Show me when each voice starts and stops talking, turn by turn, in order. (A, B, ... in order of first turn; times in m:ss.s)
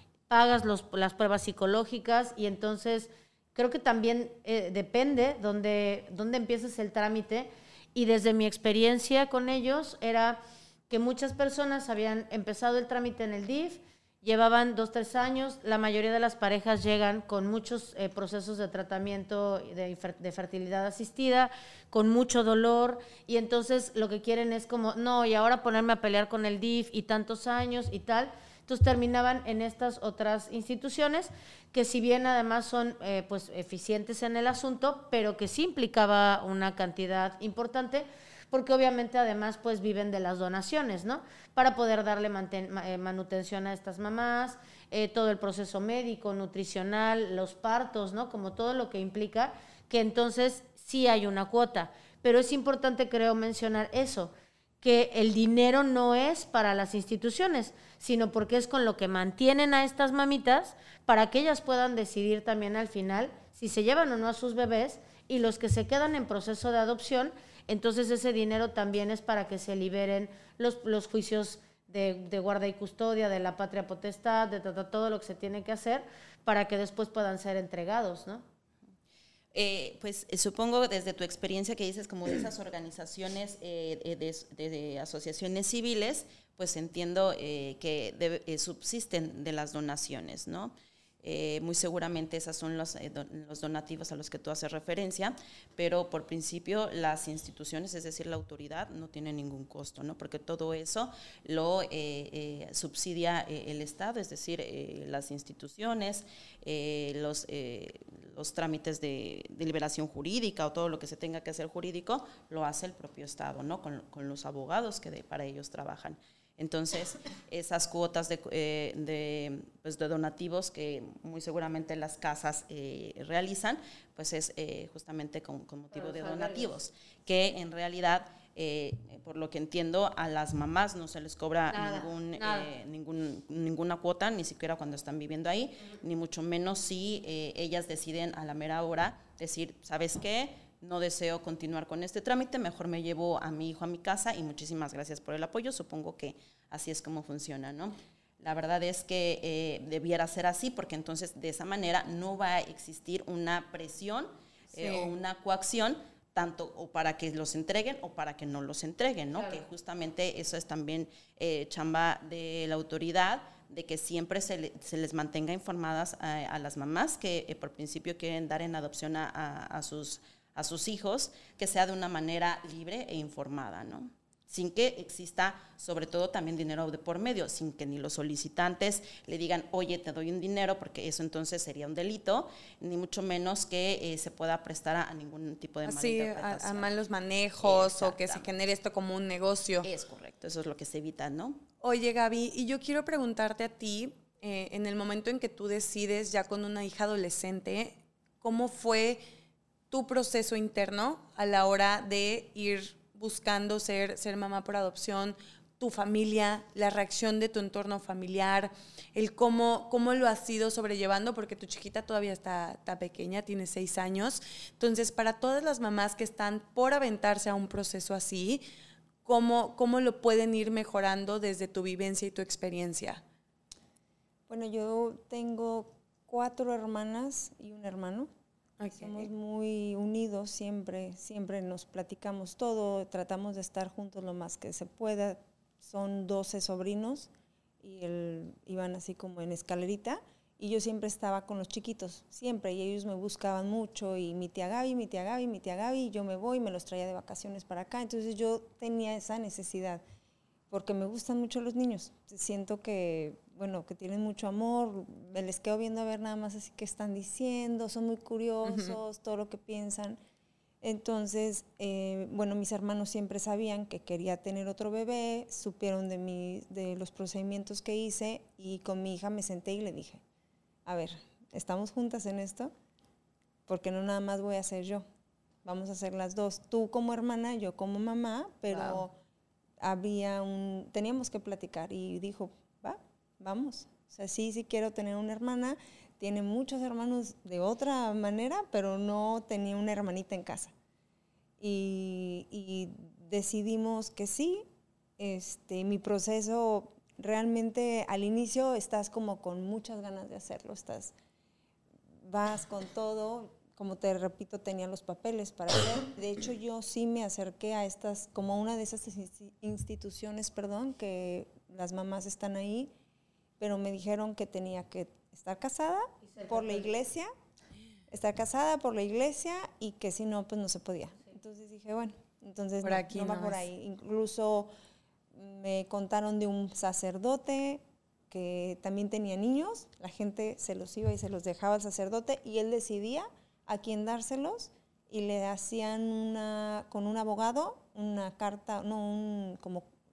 0:00.3-1:18.4 A
1:19.5-3:06.9 B
2:05.9-2:06.7 A
2:11.7-2:12.7 A
2:34.8-2:35.0 C
2:39.4-2:39.6 A
3:05.8-3:09.9 C
3:07.6-3:08.5 B
3:09.8-3:11.6 B
3:11.8-3:19.2 C
3:19.9-3:38.6 C
3:39.2-3:43.2 C
3:44.5-3:48.3 D
3:48.8-3:49.3 C
3:49.0-3:57.3 D
3:57.8-4:10.0 D
4:10.7-4:20.2 D
4:18.6-4:19.0 C
4:20.8-4:30.2 D
4:30.8-4:32.7 D
4:33.7-4:35.0 D
4:35.6-4:39.2 D
4:38.7-4:39.0 C
4:39.8-4:50.7 D
4:51.6-4:54.6 D
4:55.2-5:01.1 D
5:02.2-5:12.9 D
5:13.6-5:17.3 D
5:16.2-5:16.9 A
5:18.1-5:24.7 D
5:22.8-5:23.6 C
5:25.3-5:39.9 D